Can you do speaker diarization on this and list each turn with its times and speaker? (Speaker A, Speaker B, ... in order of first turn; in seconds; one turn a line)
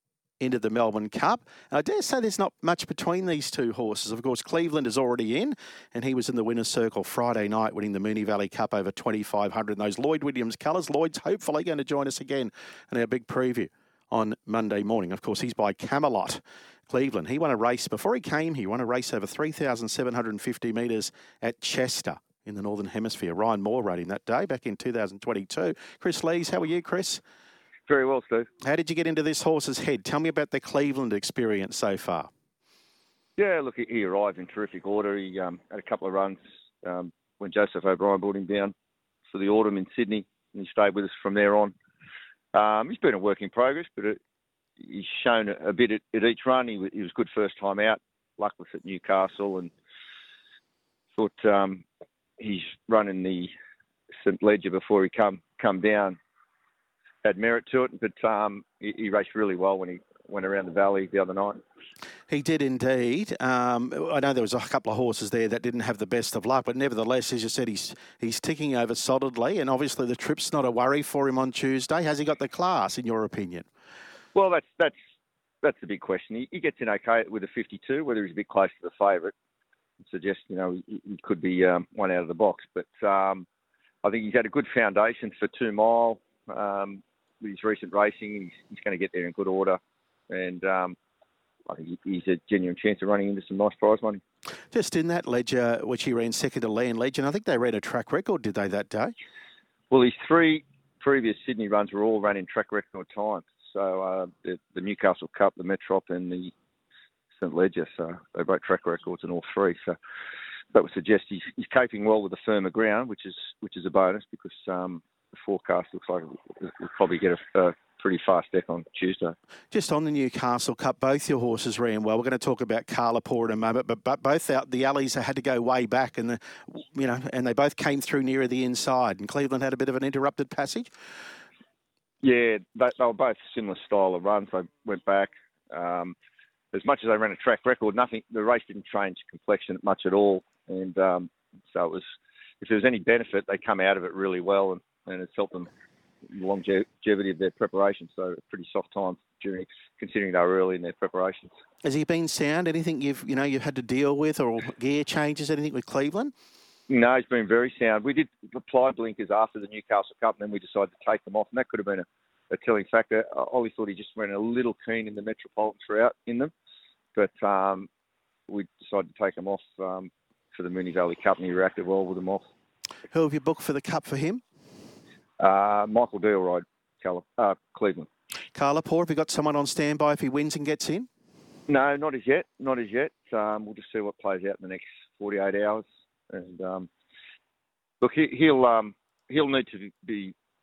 Speaker A: 0.4-27.2
Speaker B: 27.9-28.5
Speaker A: 28.6-32.3
Speaker B: 33.4-38.7
Speaker B: 39.3-41.8
Speaker B: 42.5-44.2
Speaker B: 44.8-49.7
Speaker B: 51.2-51.9
Speaker B: 52.4-53.5
Speaker B: 54.2-56.2
Speaker B: 57.2-61.6
Speaker A: 62.3-73.7
Speaker B: 74.3-74.9
Speaker B: 75.6-79.3
Speaker B: 80.0-83.5
Speaker B: 84.0-91.0
Speaker B: 91.7-94.2
Speaker A: 94.7-99.1
Speaker B: 99.9-106.5
Speaker B: 107.4-110.0
Speaker B: 110.7-119.3
Speaker A: 119.7-130.9
Speaker B: 132.2-136.2
Speaker B: 136.7-142.1
Speaker B: 142.6-145.7
Speaker B: 146.3-151.5
Speaker A: 151.8-156.3
Speaker B: 156.9-166.5
Speaker B: 167.2-167.9
Speaker B: 168.5-172.5
Speaker A: 173.1-174.4
Speaker B: 175.4-178.1
Speaker A: 178.6-181.1
Speaker B: 181.7-186.9
Speaker B: 188.0-190.3